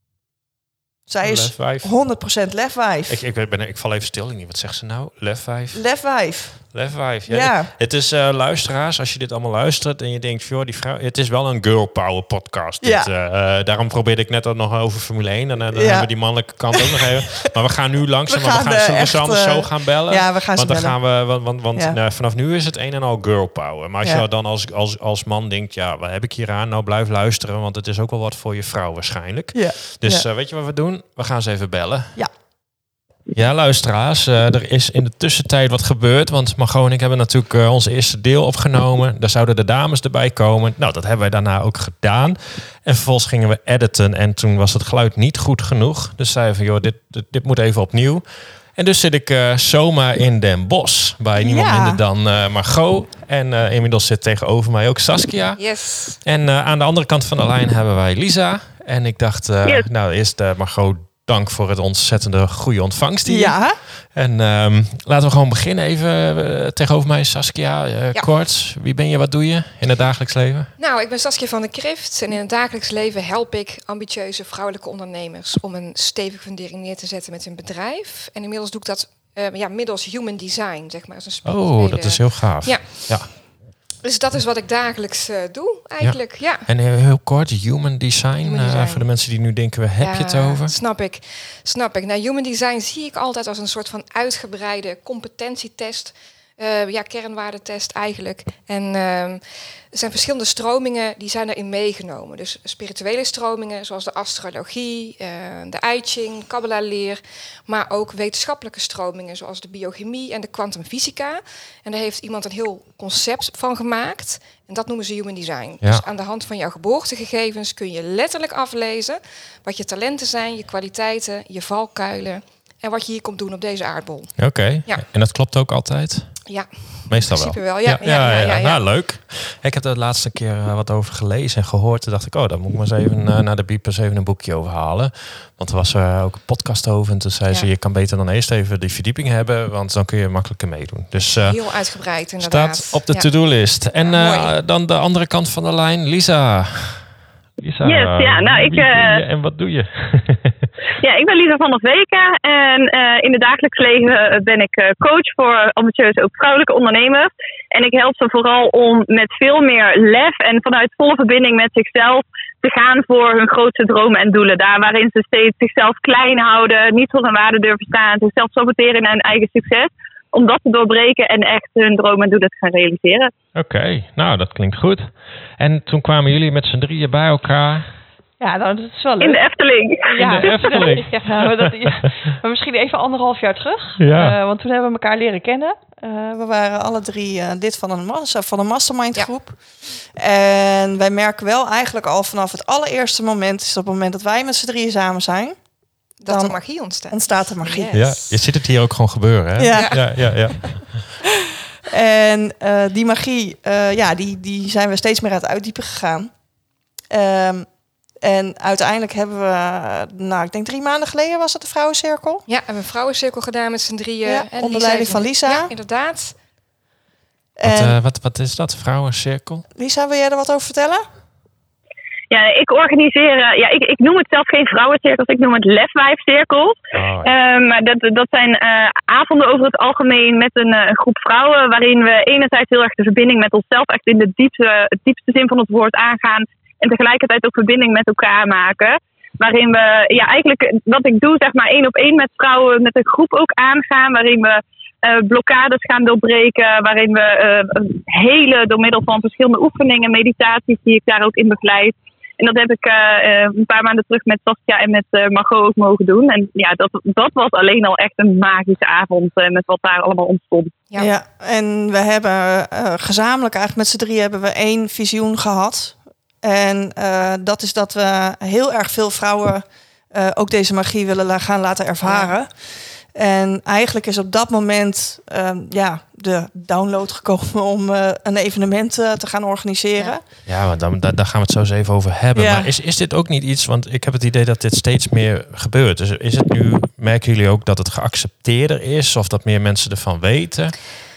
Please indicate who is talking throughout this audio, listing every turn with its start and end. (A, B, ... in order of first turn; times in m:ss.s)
0:01.1-0:03.2 A
0:01.2-0:01.9 B
0:03.1-0:05.8 B
0:05.7-0:06.7 A
0:06.6-0:32.2 B
0:07.3-0:07.7 A
0:12.8-0:13.1 A
0:15.7-0:17.0 A
0:18.3-0:21.0 A
0:29.5-0:30.3 A
0:33.3-1:10.7 B
0:51.4-0:52.0 A
0:55.6-0:56.2 C
1:03.2-1:03.8 A
1:10.8-1:23.4 C
1:21.4-1:23.3 B
1:24.0-1:26.7 C
1:26.0-1:30.7 B
1:28.4-1:29.3 C
1:30.0-2:05.0 C
2:04.4-2:06.5 B
2:06.5-2:08.8 C
2:07.1-2:30.7 B
2:21.4-2:24.5 C
2:27.8-2:29.2 D
2:31.0-2:53.3 D
2:53.5-2:57.9 B
2:58.4-2:59.5 E
2:59.2-3:00.9 D
3:00.1-3:06.3 E
3:00.2-3:02.1 B
3:04.0-3:04.4 B
3:06.3-3:15.6 A
3:16.2-3:18.4 C
3:16.2-3:18.0 A
3:17.9-3:21.1 B
3:19.6-3:20.3 A
3:19.7-3:20.7 C
3:21.8-3:26.3 A
3:27.1-3:32.4 A
3:32.5-3:36.4 C
3:34.2-3:35.7 A
3:37.6-3:38.0 A
3:37.6-3:39.6 B
3:39.7-3:41.0 A
3:42.3-4:20.7 D
3:46.9-3:47.3 B
4:21.0-4:40.2 A
4:32.0-4:32.3 C
4:40.4-4:50.8 B
4:42.3-4:42.7 A